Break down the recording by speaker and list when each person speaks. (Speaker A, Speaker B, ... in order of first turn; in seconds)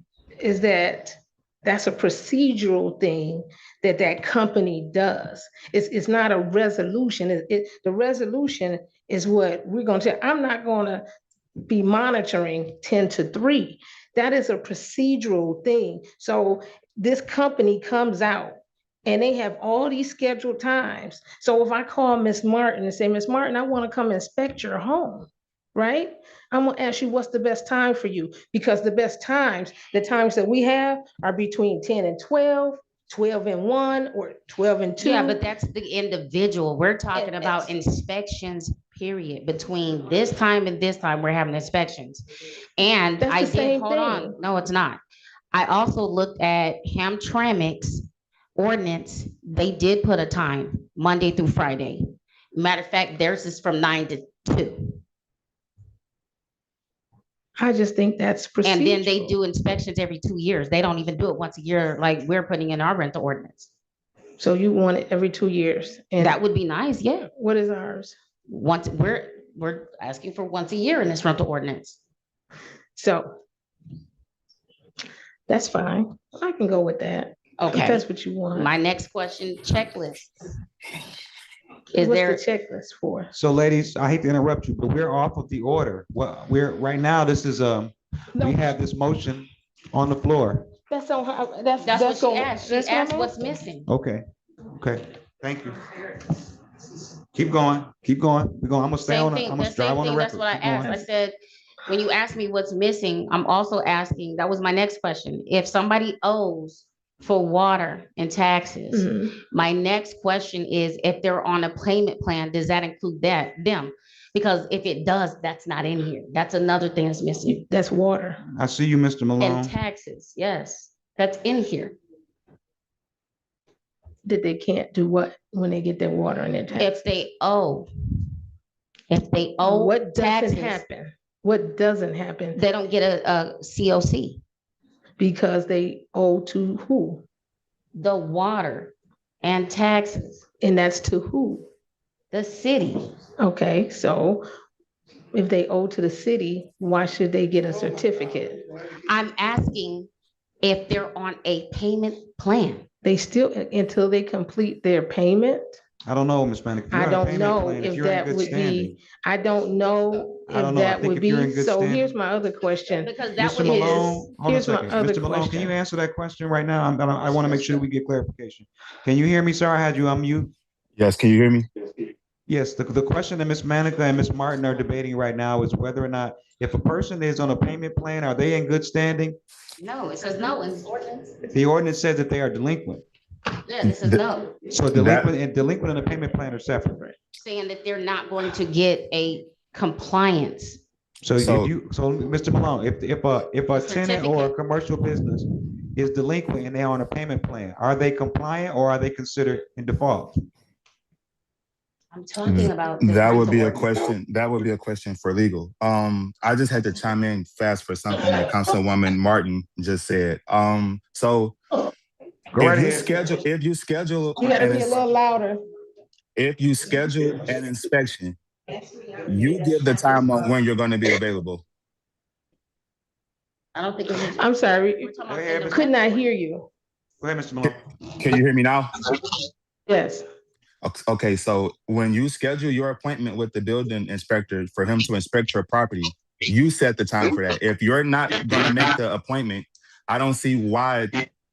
Speaker A: 0.4-11.1, 11.6-35.4, 37.1-37.7, 43.2-44.4, 57.6-59.4, 64.4-66.4, 67.3-68.2, 73.0-73.3, 75.5-78.7, 82.0-83.3, 88.4-88.7, 90.9-93.6, 108.9-109.3, 117.5-118.4, 124.2-126.9, 129.6-132.6, 135.2-137.2, 140.6-141.7, 143.4-144.4, 145.3-148.6, 153.0-155.8, 156.9-163.1, 163.6-165.7, 214.4-215.6, 224.3-225.1, 225.7-226.7, 229.9-230.2
Speaker B: 35.0-42.2, 42.8-45.0, 45.5-55.0, 58.6-63.7, 66.2-67.3, 68.5-72.0, 77.6-80.3, 81.9-82.4, 91.8-93.9, 99.0-117.6, 119.4-122.0, 126.8-127.9, 129.1-130.8, 132.5-134.4, 137.9-140.4, 142.3-143.1, 149.1-150.1, 150.6-152.8, 163.0-164.3, 179.8-181.4, 183.7-184.6, 187.3-190.8, 193.7-194.6, 202.1-203.9, 223.8-224.5, 225.0-226.3
Speaker C: 83.3-90.7, 93.9-96.0, 97.3-101.0, 118.6-119.7, 156.1-159.0, 160.5-162.2, 163.4-170.5, 172.5-179.4, 181.5-183.0, 184.7-187.2, 191.2-200.3, 212.5-213.2, 225.3-225.9, 227.2-227.8
Speaker D: 171.0-171.7, 183.8-184.2, 184.9-185.3, 191.4-191.7, 202.4-211.6, 212.6-215.0, 216.4-218.4, 219.3-221.6, 227.6-228.9, 230.8-241.2